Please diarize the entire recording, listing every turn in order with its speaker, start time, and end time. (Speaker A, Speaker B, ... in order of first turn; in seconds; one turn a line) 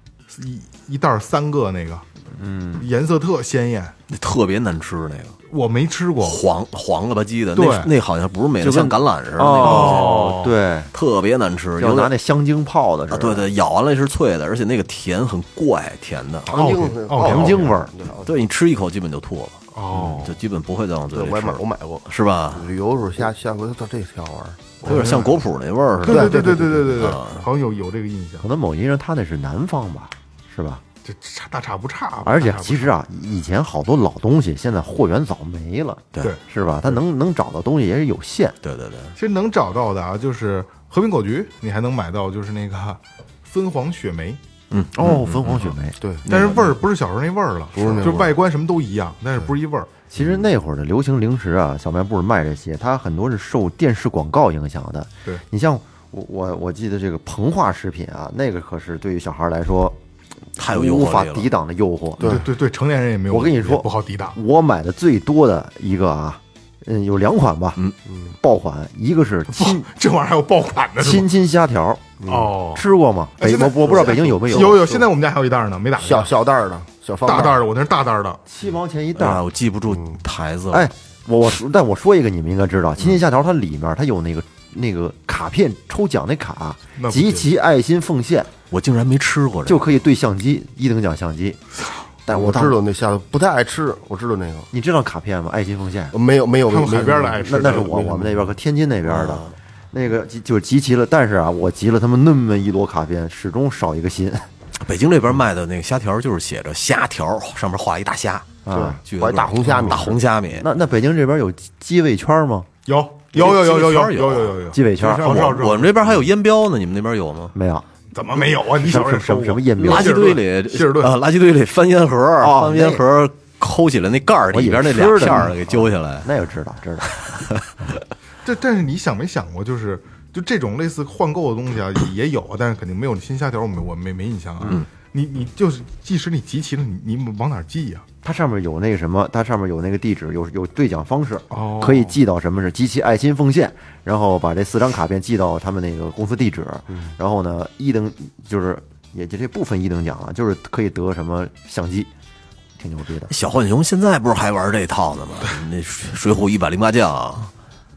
Speaker A: 0.3-2.0
Speaker B: 2.3-2.9
Speaker A: 2.8-4.0
Speaker C: 4.1-5.4
Speaker A: 5.5-6.4
Speaker C: 6.2-10.3
Speaker A: 7.5-7.9
Speaker B: 8.6-10.9
Speaker A: 9.4-10.5
Speaker C: 10.9-12.1
Speaker B: 11.8-13.5
Speaker C: 13.1-16.5
Speaker A: 16.4-17.7
Speaker D: 16.4-18.3
Speaker B: 17.1-17.9
Speaker C: 18.2-22.7
Speaker A: 19.7-20.3
Speaker D: 21.1-25.2
Speaker C: 24.8-27.5
Speaker A: 24.9-25.4
Speaker A: 26.0-28.5
Speaker D: 26.1-27.2
Speaker B: 28.4-30.8
Speaker A: 31.0-32.9
Speaker B: 32.2-38.5
Speaker C: 38.6-39.1
Speaker A: 39.1-44.4
Speaker C: 44.7-46.8
Speaker B: 44.9-46.0
Speaker D: 46.0-46.2
Speaker A: 46.3-49.9
Speaker D: 47.7-48.3
Speaker B: 50.1-60.0
Speaker C: 60.6-61.5
Speaker B: 60.6-62.4
Speaker A: 62.2-64.4
Speaker B: 63.3-67.8
Speaker B: 68.3-69.9
Speaker A: 69.5-71.3
Speaker B: 71.0-75.0
Speaker D: 72.2-72.5
Speaker A: 72.3-72.9
Speaker A: 73.4-76.3
Speaker D: 73.9-75.0
Speaker D: 76.0-77.6
Speaker A: 77.2-78.4
Speaker B: 78.5-79.4
Speaker C: 79.2-80.9
Speaker B: 80.7-88.5
Speaker A: 87.0-87.5
Speaker C: 88.7-89.8
Speaker B: 89.7-91.6
Speaker B: 92.2-92.8
Speaker D: 92.3-94.7
Speaker B: 94.7-96.1
Speaker D: 96.1-98.5
Speaker A: 96.7-98.4
Speaker B: 97.4-104.5
Speaker C: 99.0-99.5
Speaker C: 104.8-110.7
Speaker B: 108.7-109.0
Speaker D: 108.7-110.2
Speaker B: 110.5-112.7
Speaker A: 112.8-115.9
Speaker C: 113.3-114.6
Speaker B: 114.7-115.4
Speaker C: 115.1-117.5
Speaker B: 117.5-120.2
Speaker A: 118.1-121.2
Speaker C: 119.8-126.3
Speaker B: 122.4-123.0
Speaker B: 124.5-127.2
Speaker C: 127.0-127.9
Speaker A: 128.4-138.1
Speaker B: 138.2-152.1
Speaker A: 141.5-142.2
Speaker B: 152.8-153.3
Speaker C: 153.3-157.5